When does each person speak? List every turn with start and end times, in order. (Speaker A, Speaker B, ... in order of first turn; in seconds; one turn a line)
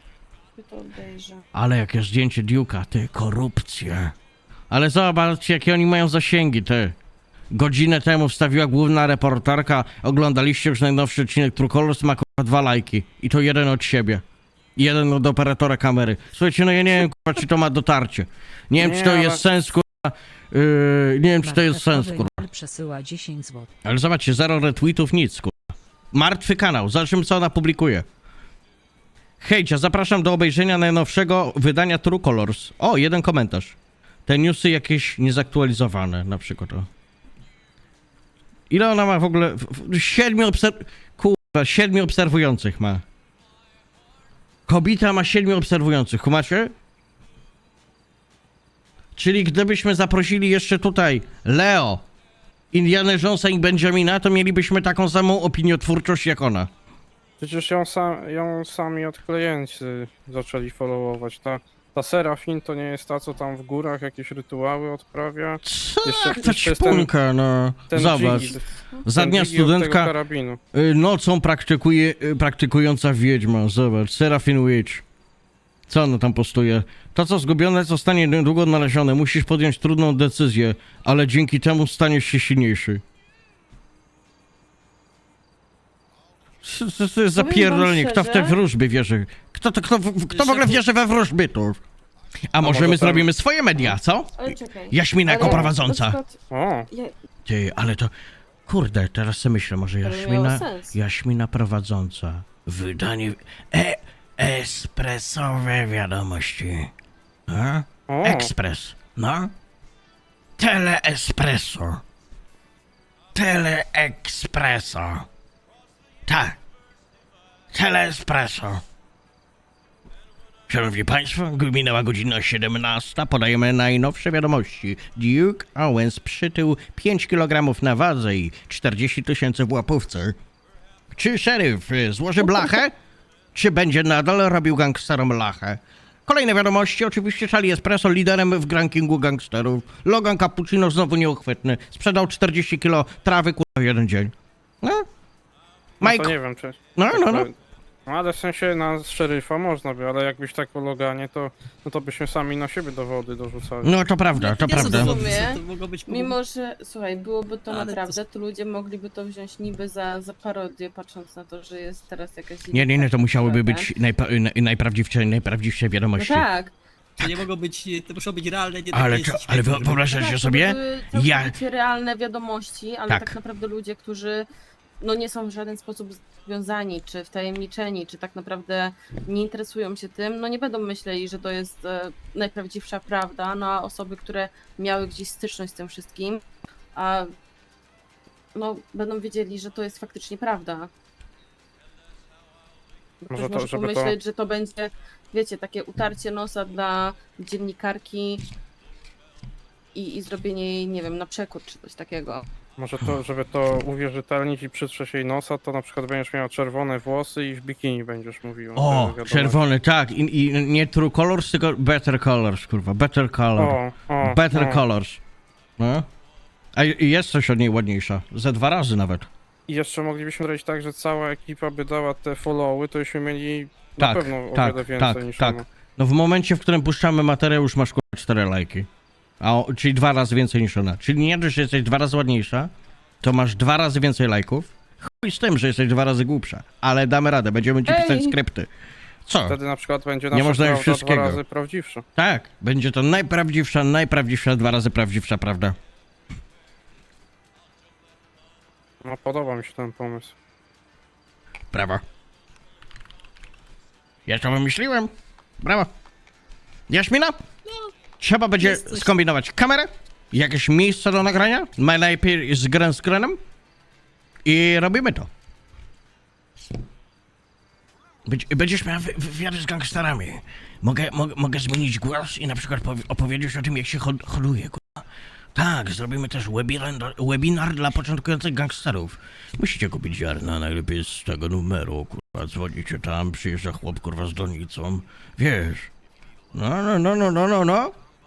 Speaker A: 0.6-1.4
Speaker B: 1.5-4.1
Speaker B: 4.7-7.0
Speaker B: 7.5-14.2
Speaker B: 14.8-22.5
Speaker C: 18.8-19.4
Speaker D: 21.4-23.7
Speaker B: 23.8-28.1
Speaker B: 29.4-36.9
Speaker B: 38.7-43.0
Speaker B: 44.7-46.7
Speaker B: 49.2-52.0
Speaker B: 52.7-56.7
Speaker C: 57.4-67.1
Speaker B: 65.6-70.1
Speaker C: 67.9-70.6
Speaker B: 70.7-75.0
Speaker B: 75.9-83.0
Speaker B: 86.6-91.8
Speaker A: 87.3-88.6
Speaker E: 90.3-90.8
Speaker B: 92.5-96.2
Speaker C: 92.6-93.3
Speaker A: 94.4-97.1
Speaker C: 96.5-96.9
Speaker B: 97.5-98.1
Speaker B: 98.7-106.9
Speaker A: 100.0-100.9
Speaker B: 107.5-109.5
Speaker C: 108.1-108.5
Speaker B: 110.6-112.0
Speaker B: 113.3-115.2
Speaker B: 116.3-116.6
Speaker B: 117.7-118.8
Speaker B: 120.7-130.4
Speaker B: 131.1-132.9
Speaker B: 133.5-145.1
Speaker B: 146.0-146.3
Speaker C: 146.0-147.5
Speaker B: 146.9-147.5
Speaker C: 148.1-154.0
Speaker B: 153.8-155.4
Speaker E: 154.3-156.3
Speaker A: 154.7-163.9
Speaker E: 157.7-158.2
Speaker B: 162.7-166.5
Speaker A: 166.2-166.7
Speaker E: 167.2-170.1
Speaker B: 168.9-171.5
Speaker A: 170.1-174.5
Speaker B: 173.1-173.3
Speaker A: 175.0-186.4
Speaker A: 186.9-187.3
Speaker A: 188.5-190.9
Speaker C: 193.3-194.2
Speaker A: 193.3-198.4
Speaker A: 199.9-202.4
Speaker C: 202.8-209.6
Speaker B: 208.8-215.2
Speaker C: 213.6-214.8
Speaker B: 215.8-216.1
Speaker B: 216.8-219.3
Speaker C: 219.7-225.7
Speaker B: 224.0-228.9
Speaker B: 229.4-238.7
Speaker A: 237.8-238.4
Speaker B: 239.2-239.6
Speaker C: 239.5-242.0
Speaker B: 240.3-241.4
Speaker B: 242.2-245.8
Speaker C: 249.0-250.3
Speaker B: 251.7-252.0
Speaker B: 254.3-255.9
Speaker B: 256.9-257.4
Speaker E: 257.7-257.9
Speaker B: 258.2-263.4
Speaker E: 258.6-259.1
Speaker B: 264.4-265.3
Speaker B: 268.3-285.9
Speaker B: 286.5-287.9